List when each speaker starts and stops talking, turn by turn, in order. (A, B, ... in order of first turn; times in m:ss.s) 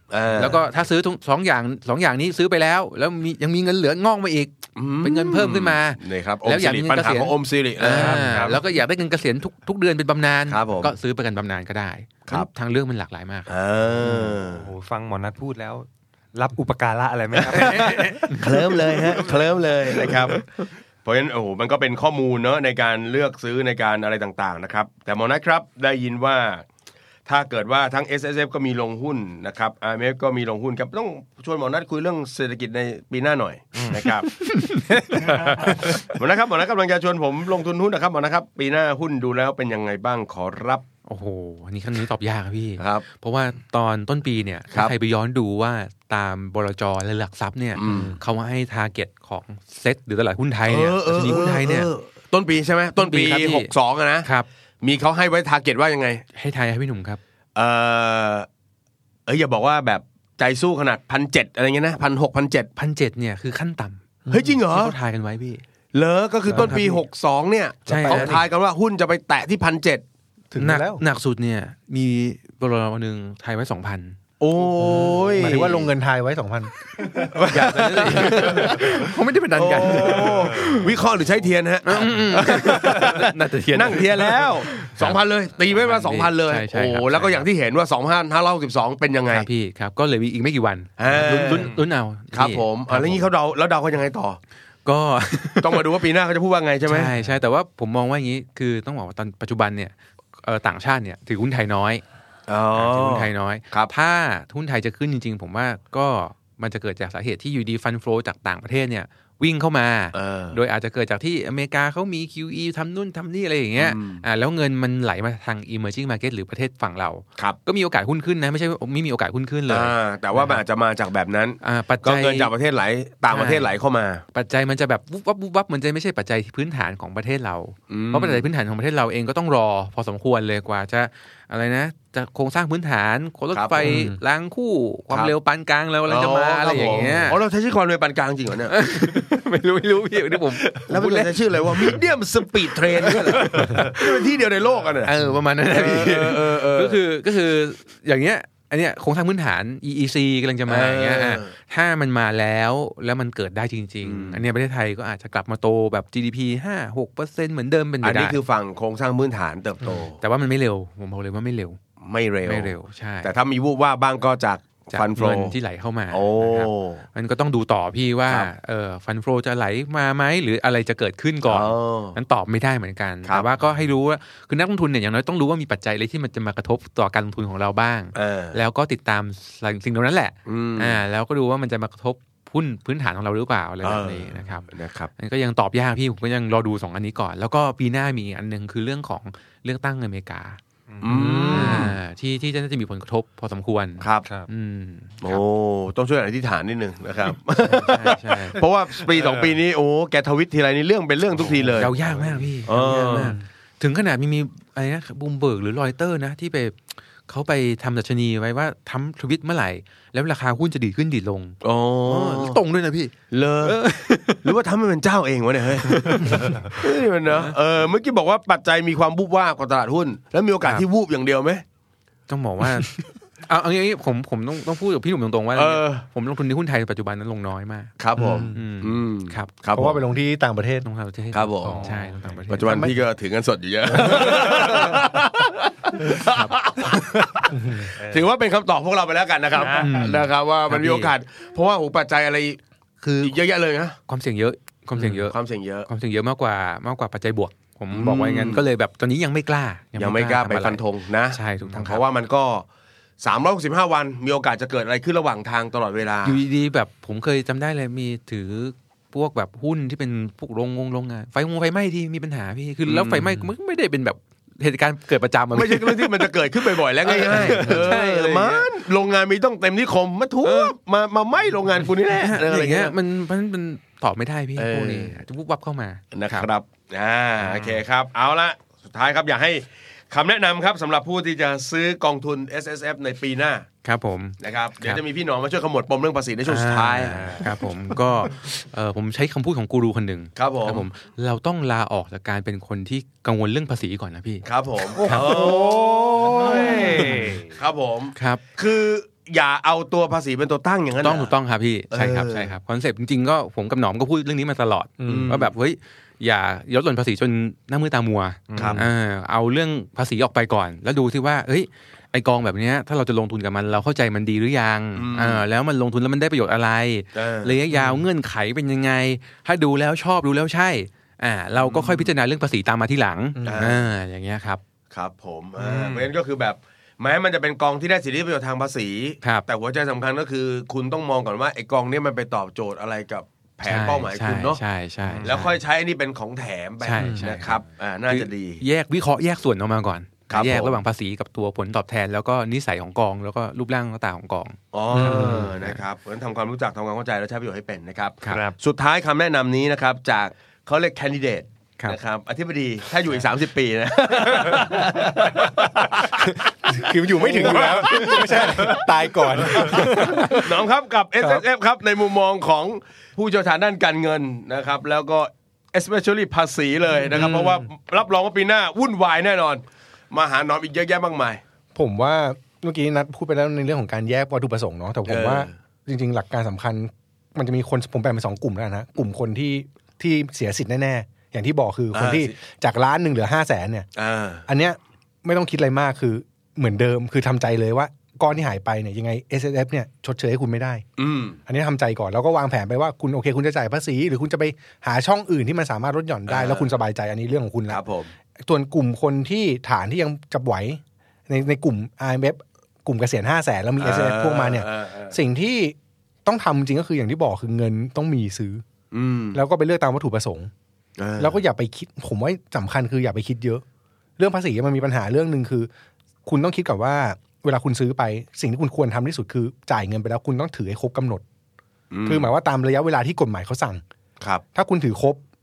0:00.1-0:00.6 A
0:00.3-0:13.6 B
0:04.8-0:08.3 A
0:07.9-0:08.6 C
0:10.5-0:10.9 A
0:13.5-0:14.7 A
0:13.9-0:19.4 C
0:17.5-0:18.4 B
0:17.5-0:20.5 A
0:21.0-0:26.6 A
0:27.3-0:34.3 A
0:33.8-0:34.1 C
0:35.0-0:35.7 C
0:35.1-0:40.8 A
0:41.1-0:51.9 B
0:42.8-0:43.0 A
0:47.8-0:48.2 A
0:47.8-0:48.2 D
0:50.7-0:54.3 A
0:53.0-0:54.5 B
0:54.8-0:56.2 A
0:56.4-0:57.2 B
0:57.6-0:58.5 A
0:59.3-1:02.7 A
1:02.8-1:05.6 B
1:04.3-1:04.5 D
1:04.3-1:05.0 A
1:05.9-1:10.0 A
1:06.5-1:07.0 D
1:06.5-1:07.0 B
1:07.9-1:08.4 D
1:07.9-1:08.4 B
1:10.5-1:11.0 D
1:10.6-1:14.2 B
1:14.4-1:15.9 A
1:14.8-1:16.7 D
1:15.4-1:15.8 B
1:17.4-1:18.8 A
1:17.4-1:20.9 B
1:18.2-1:18.7 D
1:19.6-1:29.5 A
1:20.6-1:20.9 C
1:21.8-1:27.5 B
1:29.3-1:33.3 B
1:31.0-1:31.8 A
1:31.5-1:31.8 C
1:32.3-1:34.4 A
1:34.8-1:35.9 B
1:35.6-1:37.1 A
1:36.9-1:42.0 B
1:42.5-1:43.9 A
1:42.8-2:00.6 B
1:50.1-1:50.6 A
1:53.8-1:54.2 A
1:59.7-2:04.2 A
2:01.6-2:02.5 B
2:03.3-2:03.7 B
2:04.3-2:17.4 B
2:07.9-2:08.4 A
2:13.5-2:13.9 A
2:13.8-2:14.2 D
2:16.1-2:18.8 A
2:18.7-2:22.0 B
2:20.8-2:25.1 A
2:23.0-2:24.2 B
2:25.0-2:38.4 B
2:25.7-2:27.0 A
2:30.7-2:31.5 A
2:34.0-2:34.4 A
2:38.0-2:40.2 A
2:39.9-2:41.8 B
2:42.0-2:42.7 A
2:42.4-2:43.3 B
2:43.2-2:45.6 A
2:44.9-3:15.4 B
2:46.1-2:47.0 A
2:51.5-2:52.2 A
2:58.2-2:58.6 A
3:00.5-3:01.0 A
3:03.8-3:05.1 A
3:10.9-3:11.4 C
3:11.0-3:12.0 A
3:11.1-3:11.9 D
3:14.0-3:14.3 A
3:15.2-3:21.9 A
3:17.7-3:18.6 B
3:19.1-3:19.5 C
3:21.4-3:22.5 C
3:21.8-3:34.4 B
3:22.7-3:23.4 A
3:23.1-3:23.4 D
3:31.6-3:32.6 A
3:33.3-3:33.8 A
3:34.4-3:41.6 A
3:35.9-3:36.6 B
3:42.3-3:47.9 B
3:45.6-3:46.0 A
3:48.0-3:50.0 A
3:48.2-3:48.6 D
3:48.5-3:49.5 B
3:49.7-3:50.9 D
3:50.8-3:53.0 B
3:51.3-3:51.9 A
3:51.6-3:52.0 D
3:51.6-3:52.1 C
3:52.5-4:02.6 A
3:52.6-3:53.0 D
3:54.0-3:54.4 D
3:56.2-3:56.6 B
3:57.5-3:57.9 D
3:58.0-3:58.3 C
3:59.6-4:00.0 C
3:59.7-4:01.1 B
4:03.0-4:03.4 B
4:03.2-4:04.0 A
4:04.1-4:05.4 B
4:05.0-4:05.9 A
4:05.9-4:12.0 B
4:07.9-4:08.6 A
4:10.0-4:12.6 A
4:13.2-4:16.4 A
4:16.2-4:26.3 B
4:22.9-4:23.3 A
4:25.5-4:32.9 A
4:27.0-4:28.7 B
4:30.4-4:30.7 B
4:32.2-4:36.5 B
4:34.6-4:35.2 A
4:36.1-4:43.7 A
4:37.4-4:37.8 B
4:43.8-4:45.0 B
4:44.4-4:47.4 A
4:46.5-4:54.5 B
4:47.1-4:47.5 C
4:50.4-4:50.9 A
4:54.4-5:01.3 A
4:55.0-4:55.6 B
4:55.0-4:57.6 C
4:55.1-4:55.8 D
4:56.4-4:57.4 B
4:58.2-4:58.4 B
5:01.0-5:24.6 B
5:01.9-5:02.5 A
5:05.0-5:05.4 D
5:05.0-5:05.5 A
5:08.5-5:08.8 C
5:08.5-5:08.8 A
5:15.0-5:15.4 A
5:17.2-5:17.6 A
5:17.7-5:18.0 C
5:21.6-5:22.1 A
5:23.4-5:23.7 D
5:23.4-5:23.9 A
5:24.9-5:34.6 A
5:25.6-5:26.1 C
5:33.6-5:35.6 B
5:35.0-5:35.4 C
5:35.2-5:38.6 A
5:36.8-5:45.8 B
5:37.0-5:37.3 D
5:40.3-5:40.8 A
5:44.7-6:11.4 A
5:45.0-5:45.5 D
5:48.3-5:48.6 C
5:56.7-6:00.6 D
6:07.0-6:07.7 D
6:11.8-6:23.9 D
6:15.1-6:15.5 A
6:21.9-6:22.3 A
6:24.0-6:24.5 A
6:24.5-6:30.8 D
6:31.0-6:31.4 A
6:31.5-6:37.8 D
6:36.3-6:36.7 A
6:37.7-6:38.1 A
6:38.4-6:48.6 D
6:43.8-6:45.2 A
6:48.9-6:49.4 A
6:49.3-6:50.5 D
6:51.0-6:51.4 A
6:51.2-6:53.6 D
6:54.2-6:55.7 D
6:56.3-7:01.2 D
7:01.9-7:02.3 A
7:02.1-7:03.8 D
7:04.5-7:05.2 D